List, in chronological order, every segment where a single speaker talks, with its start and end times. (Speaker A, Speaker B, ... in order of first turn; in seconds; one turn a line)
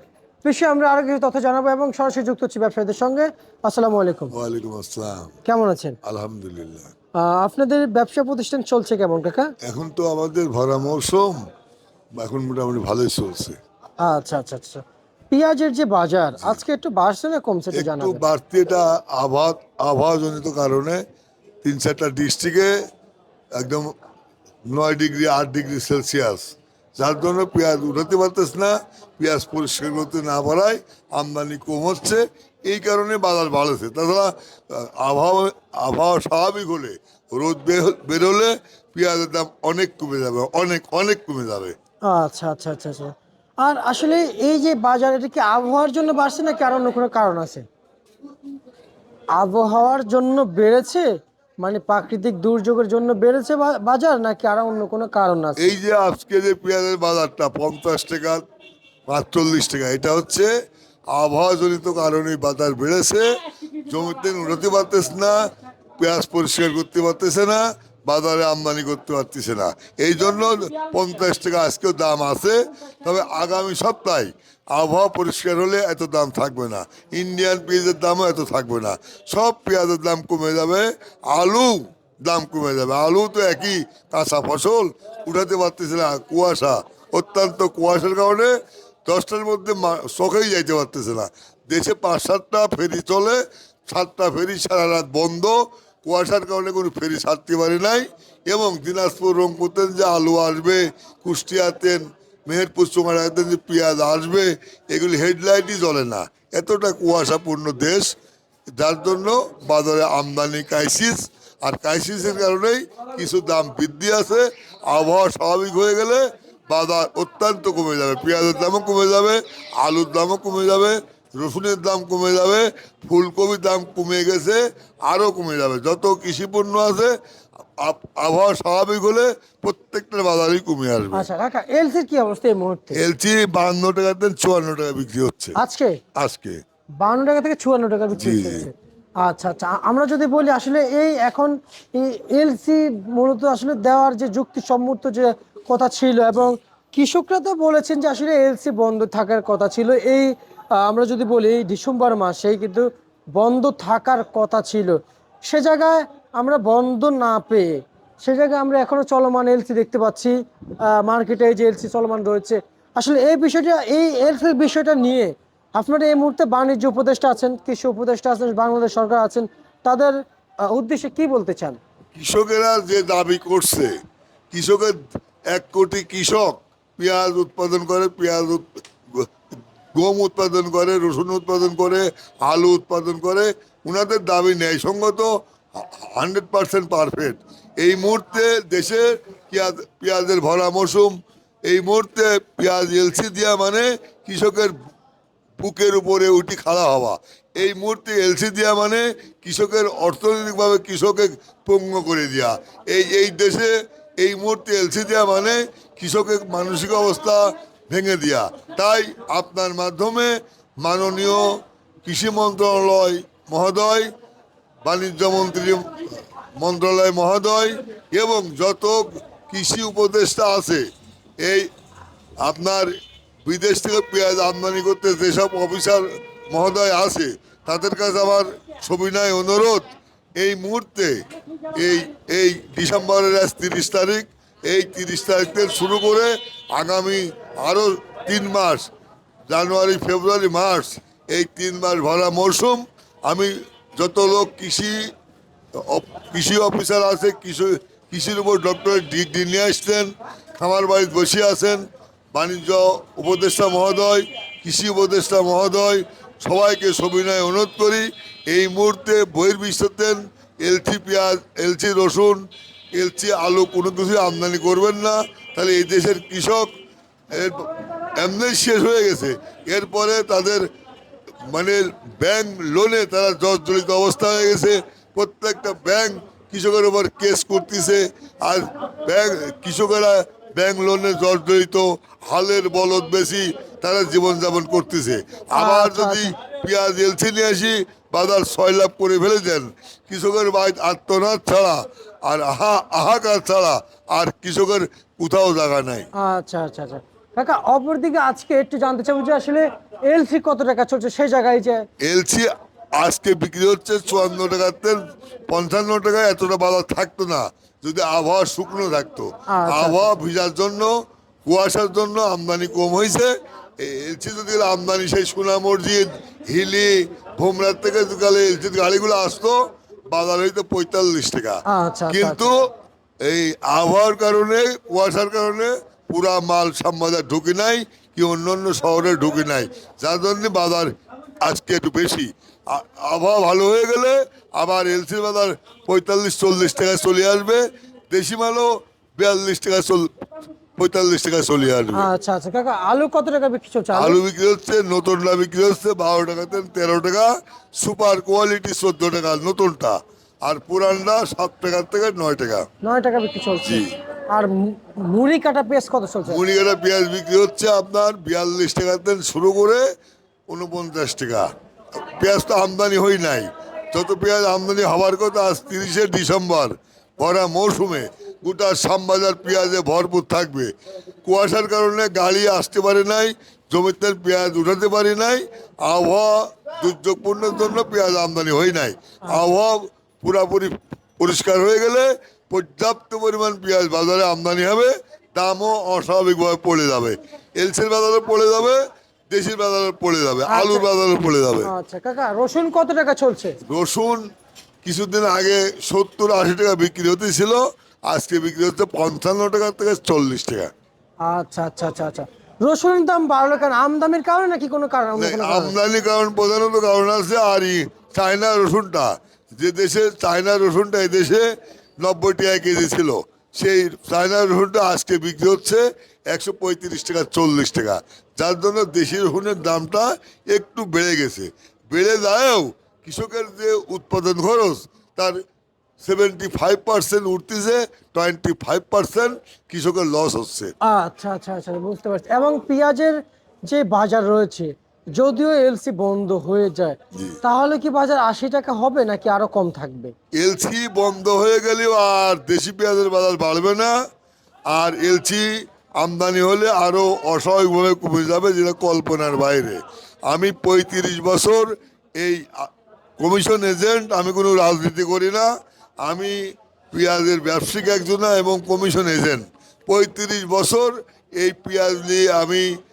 Speaker A: 0.4-4.3
Speaker B: 4.3-5.3
Speaker A: 5.5-6.0
Speaker B: 6.0-6.9
Speaker A: 7.1-9.5
Speaker B: 9.6-11.4
Speaker B: 12.2-13.6
Speaker A: 14.0-18.2
Speaker B: 17.7-21.0
Speaker B: 21.6-22.8
Speaker B: 23.5-23.9
Speaker B: 24.7-41.7
Speaker A: 42.0-47.6
Speaker A: 49.3-51.0
Speaker A: 51.6-55.8
Speaker B: 55.6-58.4
Speaker B: 59.1-60.5
Speaker B: 61.1-65.4
Speaker B: 66.0-88.5
Speaker B: 89.0-108.1
Speaker B: 108.8-127.1
Speaker B: 127.8-131.3
Speaker A: 131.1-133.0
Speaker B: 132.9-135.6
Speaker A: 135.6-136.0
Speaker B: 136.2-136.6
Speaker A: 137.0-171.8
Speaker B: 138.2-138.7
Speaker B: 172.1-173.9
Speaker B: 174.5-179.3
Speaker B: 179.9-191.1
Speaker B: 191.7-194.7
Speaker B: 195.6-214.1
Speaker B: 214.8-216.0
Speaker B: 216.6-220.8
Speaker B: 221.4-221.7
Speaker B: 222.4-222.9
Speaker B: 223.4-229.8
Speaker B: 230.4-231.2
Speaker B: 231.7-238.9
Speaker B: 239.5-245.1
Speaker B: 245.7-266.7
Speaker B: 267.3-270.7
Speaker B: 271.4-296.1
Speaker A: 285.5-286.3
Speaker A: 296.1-301.8
Speaker B: 302.0-310.9
Speaker A: 309.5-310.2
Speaker B: 311.5-321.6
Speaker A: 321.7-322.5
Speaker B: 322.1-322.6
Speaker B: 323.2-330.9
Speaker B: 331.4-340.1
Speaker B: 340.8-342.1
Speaker A: 341.9-344.2
Speaker B: 343.9-352.6
Speaker A: 352.8-356.4
Speaker B: 353.6-353.9
Speaker B: 356.2-359.8
Speaker B: 360.5-370.7
Speaker B: 371.2-391.7
Speaker A: 390.5-390.9
Speaker A: 391.6-393.6
Speaker B: 393.7-394.2
Speaker B: 394.8-400.7
Speaker A: 401.2-405.7
Speaker B: 405.2-411.4
Speaker B: 412.0-425.4
Speaker B: 426.0-430.7
Speaker A: 430.8-440.1
Speaker B: 440.4-443.9
Speaker B: 444.7-455.5
Speaker B: 456.0-462.7